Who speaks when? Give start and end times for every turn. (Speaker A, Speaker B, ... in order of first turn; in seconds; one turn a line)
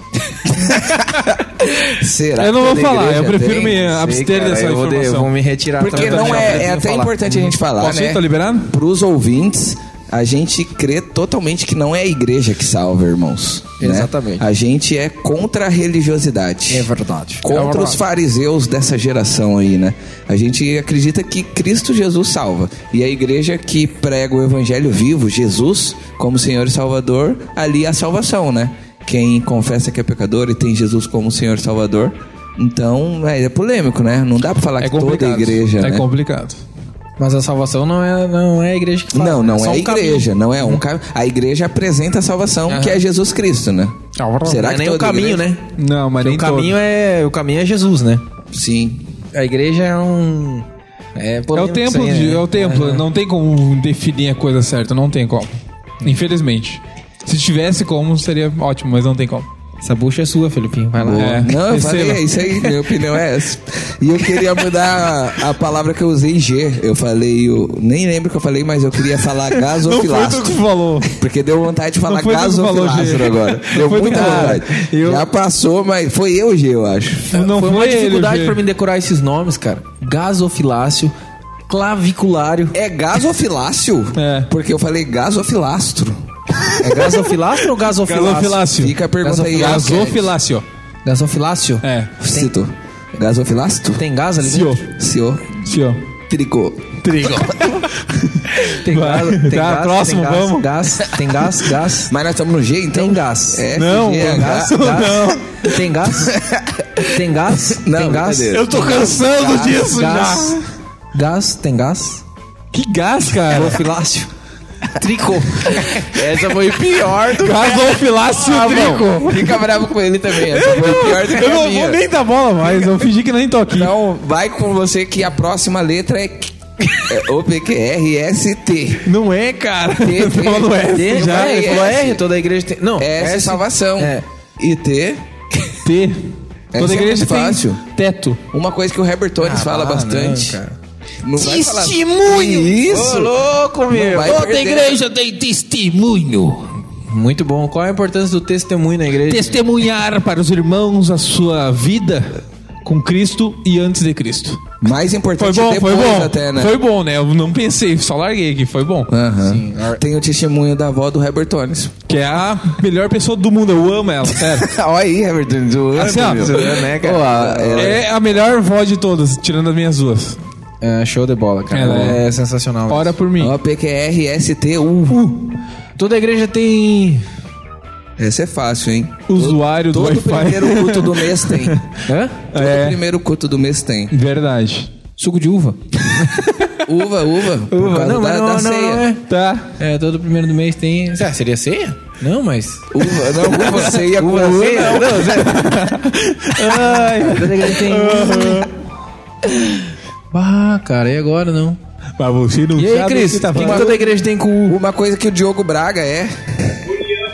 Speaker A: 0.5-4.1
Speaker B: 2.4-6.7
Speaker C: 3.9-7.2
Speaker A: 5.8-16.9
Speaker B: 7.5-8.7
Speaker C: 13.8-14.5
Speaker C: 16.7-17.6
Speaker A: 17.4-36.1
Speaker B: 17.5-18.0
Speaker B: 34.8-36.6
Speaker C: 37.2-40.8
Speaker A: 39.1-45.4
Speaker C: 42.7-43.0
Speaker B: 44.2-44.6
Speaker C: 44.4-45.7
Speaker B: 45.8-46.8
Speaker C: 46.2-48.2
Speaker A: 48.5-49.1
Speaker C: 49.3-53.0
Speaker B: 51.5-59.5
Speaker C: 59.8-61.4
Speaker A: 61.0-70.5
Speaker B: 61.2-62.5
Speaker B: 69.7-71.1
Speaker A: 71.1-77.3
Speaker B: 72.1-74.6
Speaker C: 74.0-75.3
Speaker B: 77.3-78.6
Speaker C: 77.3-81.1
Speaker C: 81.7-82.8
Speaker A: 82.7-86.2
Speaker B: 84.2-84.5
Speaker C: 86.8-88.7
Speaker B: 87.9-90.7
Speaker A: 88.8-90.3
Speaker C: 89.2-89.8
Speaker C: 91.0-92.5
Speaker B: 91.8-92.1
Speaker A: 92.2-94.0
Speaker C: 94.0-94.8
Speaker B: 94.4-94.9
Speaker A: 94.9-97.8
Speaker B: 95.7-96.0
Speaker B: 97.0-100.9
Speaker C: 98.6-102.1
Speaker A: 102.1-104.9
Speaker C: 102.9-106.3
Speaker B: 103.7-105.5
Speaker A: 106.2-109.8
Speaker C: 107.1-109.1
Speaker B: 108.5-110.6
Speaker C: 109.7-110.6
Speaker C: 111.1-112.2
Speaker B: 112.7-113.8
Speaker C: 113.5-114.3
Speaker C: 115.0-119.1
Speaker B: 117.4-119.6
Speaker A: 118.6-122.0
Speaker B: 120.4-123.9
Speaker A: 123.7-129.1
Speaker B: 129.1-131.7
Speaker A: 130.0-132.2
Speaker C: 130.9-134.2
Speaker A: 133.0-135.2
Speaker B: 135.8-138.4
Speaker A: 136.7-137.8
Speaker A: 138.5-140.6
Speaker C: 139.4-140.7
Speaker A: 141.2-143.4
Speaker D: 141.4-142.5
Speaker B: 141.9-142.5
Speaker C: 142.7-144.4
Speaker A: 143.9-145.0
Speaker D: 144.1-146.7
Speaker C: 147.1-149.6
Speaker B: 149.3-154.7
Speaker A: 154.8-156.7
Speaker B: 155.4-159.1
Speaker A: 159.1-161.9
Speaker C: 159.4-160.0
Speaker B: 162.1-164.7
Speaker A: 164.4-168.1
Speaker B: 166.0-166.9
Speaker C: 166.0-168.0
Speaker B: 167.8-170.4
Speaker C: 170.8-173.1
Speaker B: 171.7-172.2
Speaker B: 172.9-173.5
Speaker A: 173.4-175.3
Speaker C: 176.0-177.2
Speaker A: 178.2-181.8
Speaker B: 179.3-181.9
Speaker C: 182.1-182.4
Speaker B: 182.5-183.0
Speaker A: 182.5-184.1
Speaker B: 184.1-184.9
Speaker C: 185.2-186.5
Speaker A: 186.8-189.1
Speaker C: 187.7-189.2
Speaker B: 189.3-189.7
Speaker C: 189.8-195.8
Speaker A: 192.9-195.4
Speaker B: 195.0-198.7
Speaker C: 196.6-198.7
Speaker C: 200.3-201.8
Speaker B: 202.2-204.1
Speaker C: 202.8-204.8
Speaker A: 203.6-204.0
Speaker A: 204.7-206.8